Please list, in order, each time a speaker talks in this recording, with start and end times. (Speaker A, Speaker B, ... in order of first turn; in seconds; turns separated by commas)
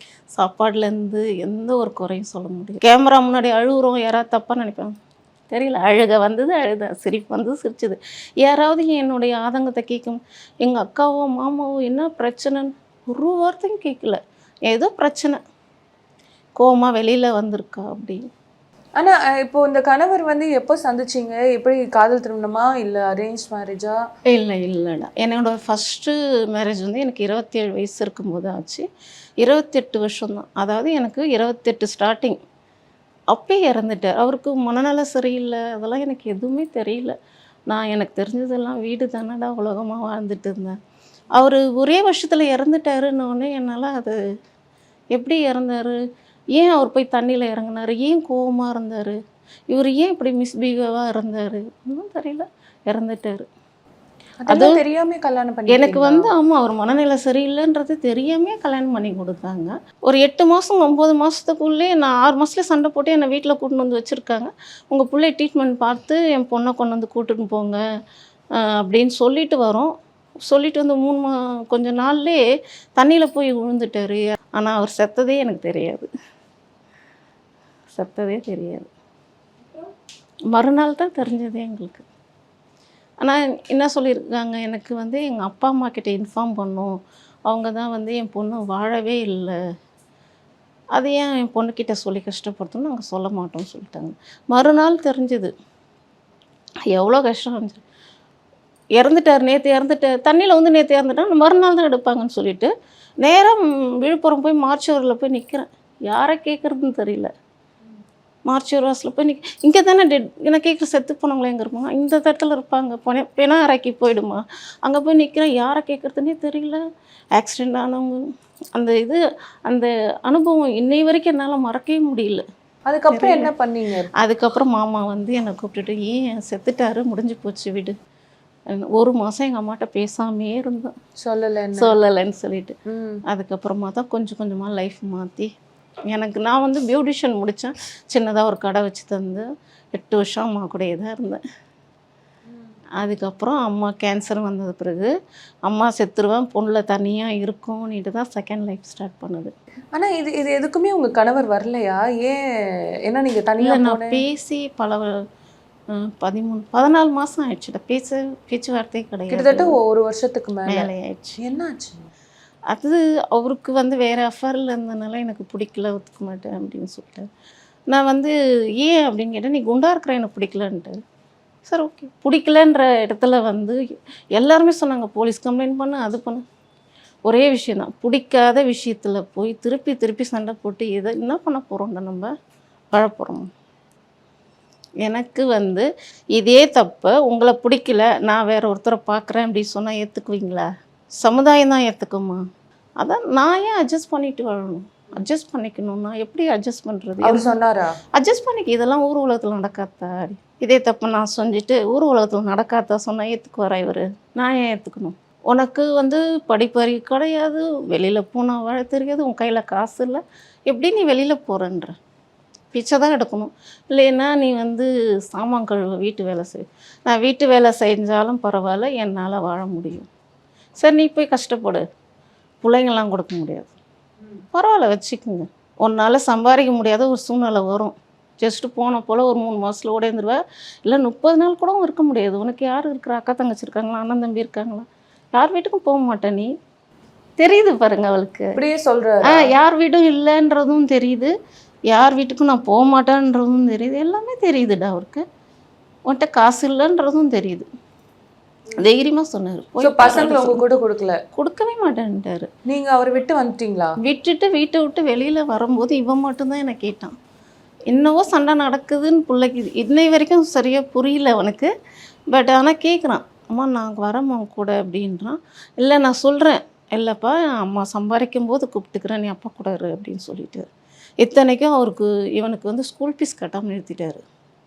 Speaker A: 0.3-4.9, Speaker A: 5.5-15.4, Speaker A: 16.6-18.2, Speaker B: 19.0-24.0, Speaker A: 24.3-28.9, Speaker A: 29.4-32.4, Speaker A: 33.3-37.1, Speaker A: 37.7-40.8, Speaker A: 41.4-44.2, Speaker A: 45.1-46.0, Speaker A: 46.5-49.2, Speaker A: 49.7-53.5, Speaker B: 54.5-56.3, Speaker A: 54.5-54.8, Speaker A: 55.7-67.8, Speaker A: 68.8-69.9, Speaker A: 70.5-72.4, Speaker A: 73.0-76.1, Speaker A: 77.9-78.9, Speaker A: 80.5-82.0, Speaker A: 83.2-86.9, Speaker A: 87.5-89.5, Speaker A: 91.0-95.5, Speaker A: 96.9-97.8, Speaker A: 99.0-102.7, Speaker A: 103.2-107.3, Speaker A: 108.5-116.8, Speaker A: 117.4-118.2, Speaker A: 118.8-122.5, Speaker B: 122.9-124.1, Speaker A: 123.1-123.5, Speaker A: 124.2-128.0, Speaker A: 128.7-130.9, Speaker B: 131.2-132.0, Speaker A: 131.8-132.8, Speaker B: 132.9-133.2, Speaker A: 133.3-135.5, Speaker A: 136.1-141.4, Speaker A: 143.0-145.1, Speaker A: 145.7-149.5, Speaker B: 149.9-152.4, Speaker B: 153.1-154.2, Speaker A: 153.6-155.2, Speaker A: 155.9-159.7, Speaker B: 159.3-160.9, Speaker A: 160.7-161.4, Speaker B: 161.4-162.1, Speaker A: 162.7-167.3, Speaker A: 167.9-171.0, Speaker A: 171.7-173.8, Speaker A: 174.4-176.4, Speaker A: 177.2-182.3, Speaker A: 182.9-183.5, Speaker A: 185.0-190.7, Speaker A: 191.2-192.4, Speaker A: 193.0-197.5, Speaker B: 197.2-197.9, Speaker A: 198.2-211.9, Speaker A: 212.7-220.1, Speaker A: 220.8-221.8, Speaker A: 222.6-223.7, Speaker A: 224.5-236.5, Speaker A: 237.4-238.5, Speaker B: 238.6-239.5, Speaker A: 239.3-241.3, Speaker A: 241.9-245.2, Speaker A: 246.1-247.7, Speaker A: 248.8-250.6, Speaker B: 249.8-251.2, Speaker A: 251.3-252.5, Speaker B: 252.7-253.9, Speaker A: 254.0-257.1, Speaker A: 257.9-261.7, Speaker A: 262.3-270.7, Speaker A: 271.2-274.2